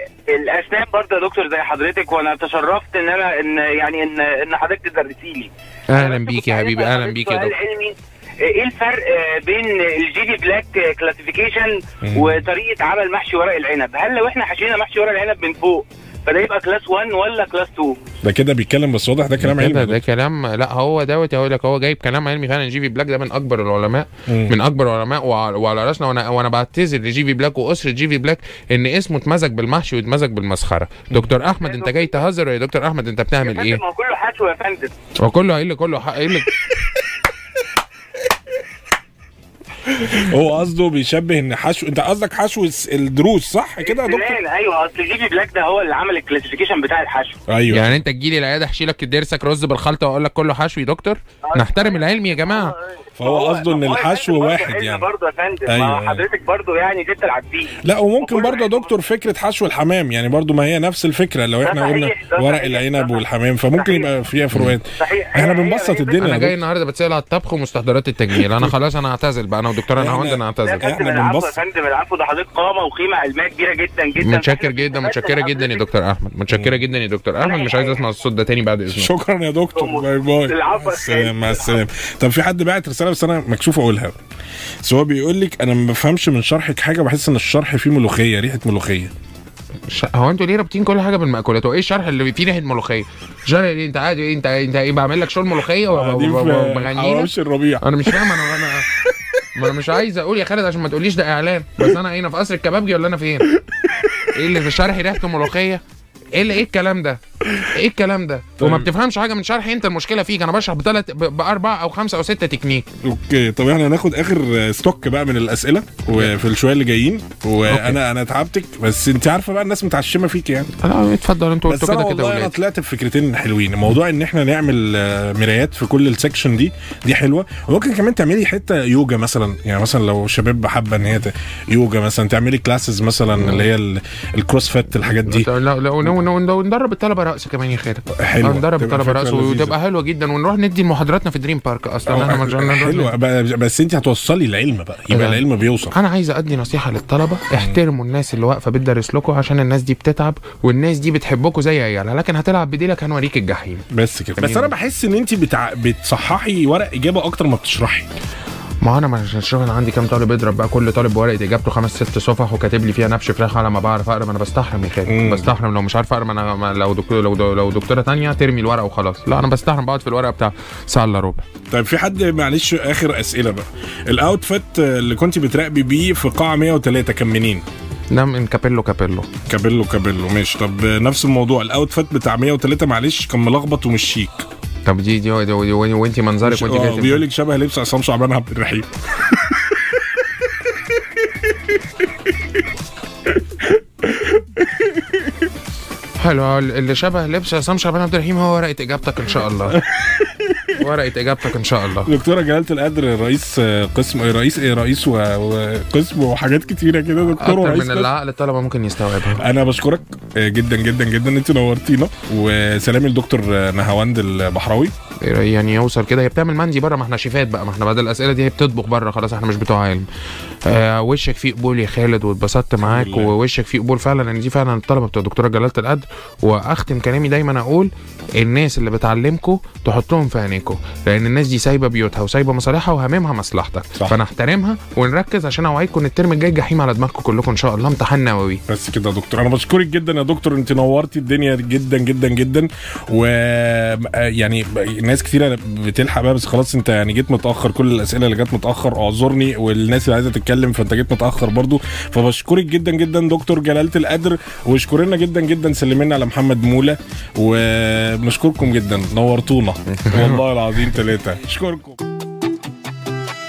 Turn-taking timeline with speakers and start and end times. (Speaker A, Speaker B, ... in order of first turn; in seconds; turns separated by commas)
Speaker A: 0.3-18.0, Speaker B: 5.9-7.6, Speaker C: 12.0-12.4, Speaker C: 18.2-20.0, Speaker B: 19.4-33.8, Speaker C: 24.3-24.6, Speaker A: 31.6-32.2, Speaker A: 33.4-34.9, Speaker B: 35.2-36.6, Speaker C: 40.0-44.4, Speaker A: 43.8-47.4, Speaker C: 47.5-48.0, Speaker B: 47.7-52.7, Speaker A: 51.5-58.9, Speaker C: 53.2-55.0, Speaker C: 55.6-56.2, Speaker C: 57.8-66.6, Speaker A: 61.6-63.2, Speaker A: 63.7-64.1, Speaker B: 64.5-64.8, Speaker A: 65.0-66.3, Speaker B: 66.2-70.9, Speaker C: 69.9-71.6, Speaker A: 70.6-75.8, Speaker B: 74.2-79.1, Speaker C: 76.5-76.8, Speaker A: 77.4-78.0, Speaker C: 78.9-84.2, Speaker A: 79.8-81.8, Speaker C: 84.8-89.1, Speaker B: 89.9-98.9, Speaker C: 95.9-99.4, Speaker B: 99.5-103.5, Speaker B: 104.3-105.8, Speaker B: 106.3-112.9, Speaker C: 108.6-108.9, Speaker C: 113.0-120.7, Speaker B: 117.7-118.0, Speaker B: 120.8-122.5, Speaker C: 121.7-135.5, Speaker B: 133.3-133.7, Speaker B: 135.2-143.1, Speaker C: 138.1-139.7, Speaker C: 142.1-145.9, Speaker B: 145.1-154.7, Speaker C: 147.5-147.8, Speaker C: 153.9-158.1, Speaker B: 158.8-171.4, Speaker C: 165.1-165.5, Speaker C: 171.7-177.6, Speaker B: 178.1-179.3, Speaker C: 179.5-184.4, Speaker B: 184.8-187.2, Speaker C: 186.4-188.9, Speaker B: 196.2-199.8, Speaker C: 199.9-200.7, Speaker B: 200.8-202.1, Speaker C: 202.0-208.1, Speaker B: 207.3-209.4, Speaker C: 209.4-214.9, Speaker B: 215.2-220.1, Speaker B: 220.7-238.6, Speaker C: 222.8-223.3, Speaker C: 238.7-262.0, Speaker B: 260.1-260.4